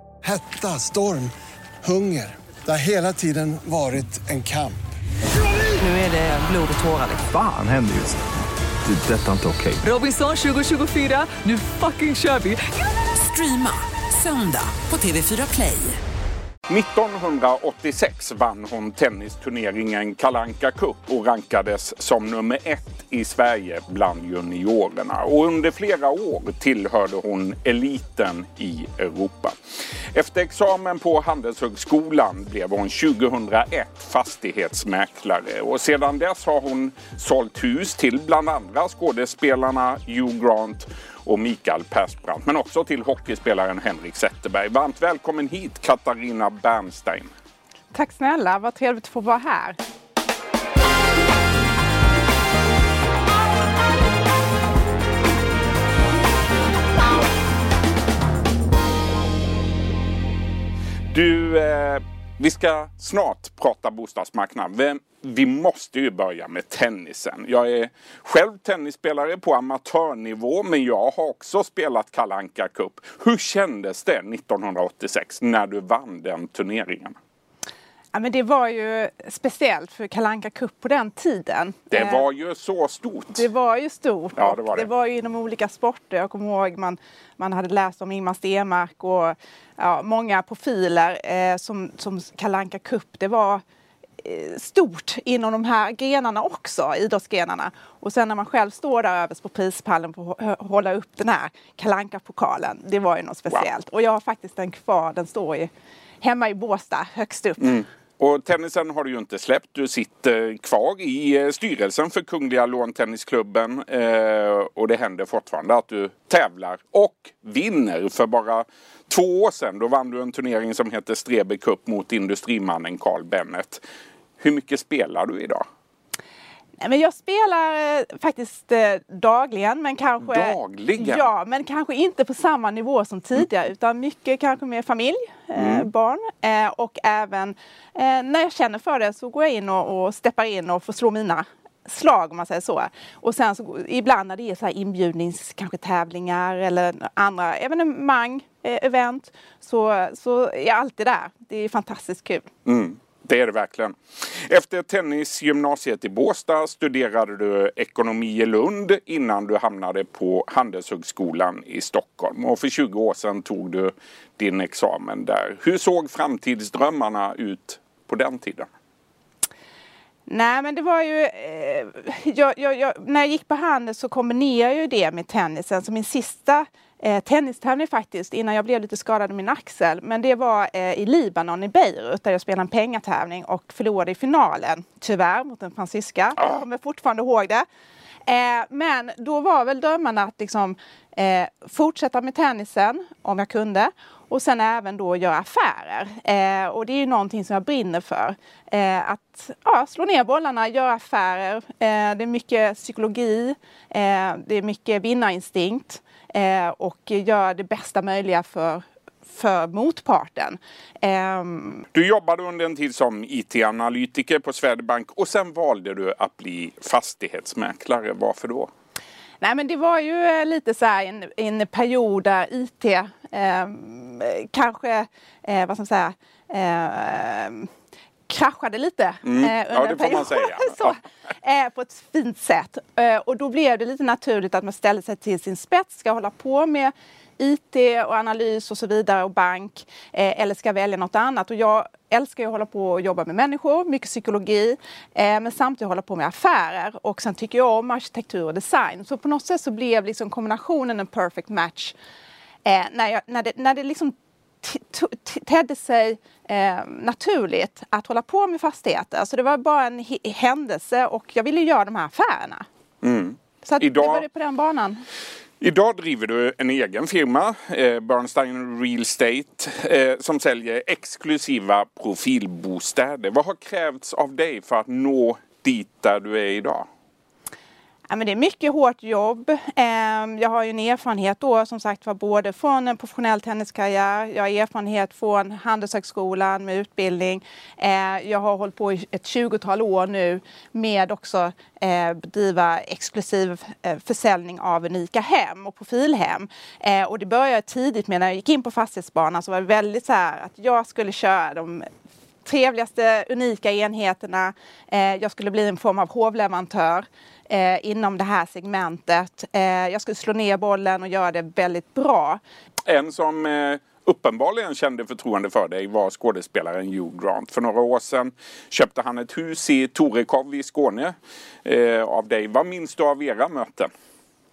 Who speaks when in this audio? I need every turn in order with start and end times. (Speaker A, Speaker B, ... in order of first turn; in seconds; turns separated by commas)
Speaker A: 0.2-1.3, Speaker A: 1.8-4.8, Speaker B: 5.8-7.3, Speaker C: 7.2-8.2, Speaker C: 8.8-9.9, Speaker B: 9.8-12.6, Speaker B: 13.2-16.0, Speaker D: 16.7-29.6, Speaker D: 30.1-47.3, Speaker E: 47.9-49.8, Speaker D: 61.1-77.2, Speaker E: 78.1-82.3, Speaker D: 81.9-83.5, Speaker E: 83.3-93.6, Speaker D: 84.4-84.9, Speaker E: 94.2-105.7, Speaker E: 106.2-107.8, Speaker D: 107.6-123.8, Speaker D: 124.4-125.6, Speaker E: 126.8-152.5, Speaker D: 130.2-131.3, Speaker D: 135.6-135.9, Speaker D: 152.7-168.7, Speaker E: 170.3-187.7, Speaker E: 188.3-211.8, Speaker D: 211.9-218.7, Speaker E: 219.4-227.7, Speaker E: 228.3-251.9, Speaker D: 229.2-231.0, Speaker E: 252.7-262.6, Speaker D: 263.0-264.2, Speaker E: 263.6-265.0, Speaker D: 265.6-276.9, Speaker E: 278.1-301.9, Speaker E: 302.4-312.4, Speaker D: 312.9-323.9